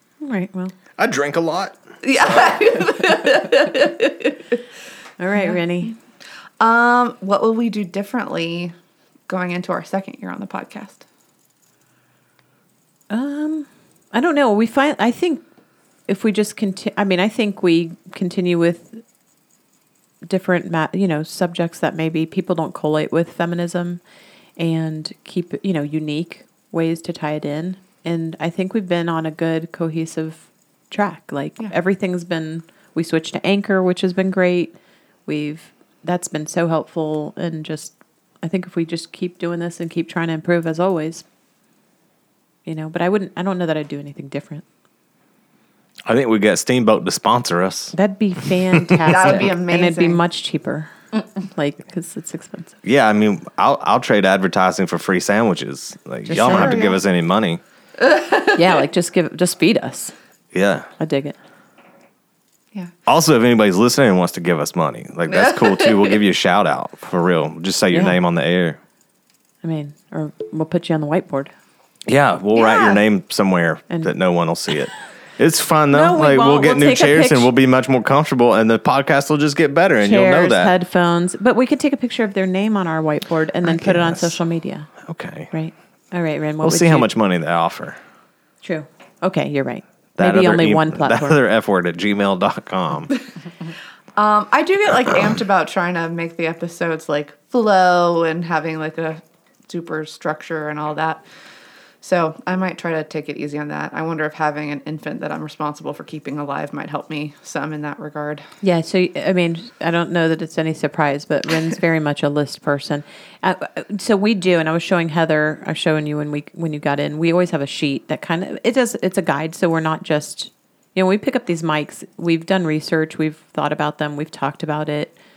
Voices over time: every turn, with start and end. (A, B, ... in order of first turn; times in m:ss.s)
0:00.2-0:00.7 A
0:01.0-0:02.5 B
0:02.0-0:04.6 C
0:05.2-0:06.0 A
0:06.6-0:08.7 C
0:09.3-0:11.0 C
0:13.1-0:15.4 A
0:16.1-0:19.0 A
0:20.2-0:24.0 A
0:24.6-0:34.8 A
0:35.3-0:41.2 A
0:42.7-0:44.6 A
0:46.0-0:48.0 B
0:47.9-0:52.8 A
0:48.7-0:49.4 B
0:49.1-0:50.2 C
0:52.8-0:57.6 B
0:56.3-0:56.9 A
0:56.4-0:57.0 C
0:58.6-1:00.1 A
1:00.5-1:00.9 B
1:01.0-1:01.4 A
1:03.1-1:08.8 B
1:05.3-1:06.1 C
1:07.9-1:08.2 A
1:09.6-1:11.5 A
1:12.1-1:20.7 B
1:12.6-1:13.0 C
1:15.9-1:17.5 A
1:20.0-1:24.9 A
1:23.7-1:24.4 B
1:25.0-1:25.5 B
1:25.5-1:27.1 A
1:26.6-1:28.0 B
1:28.6-1:31.4 A
1:30.2-1:33.1 B
1:34.2-1:41.2 C
1:42.0-1:48.4 C
1:48.6-2:05.2 A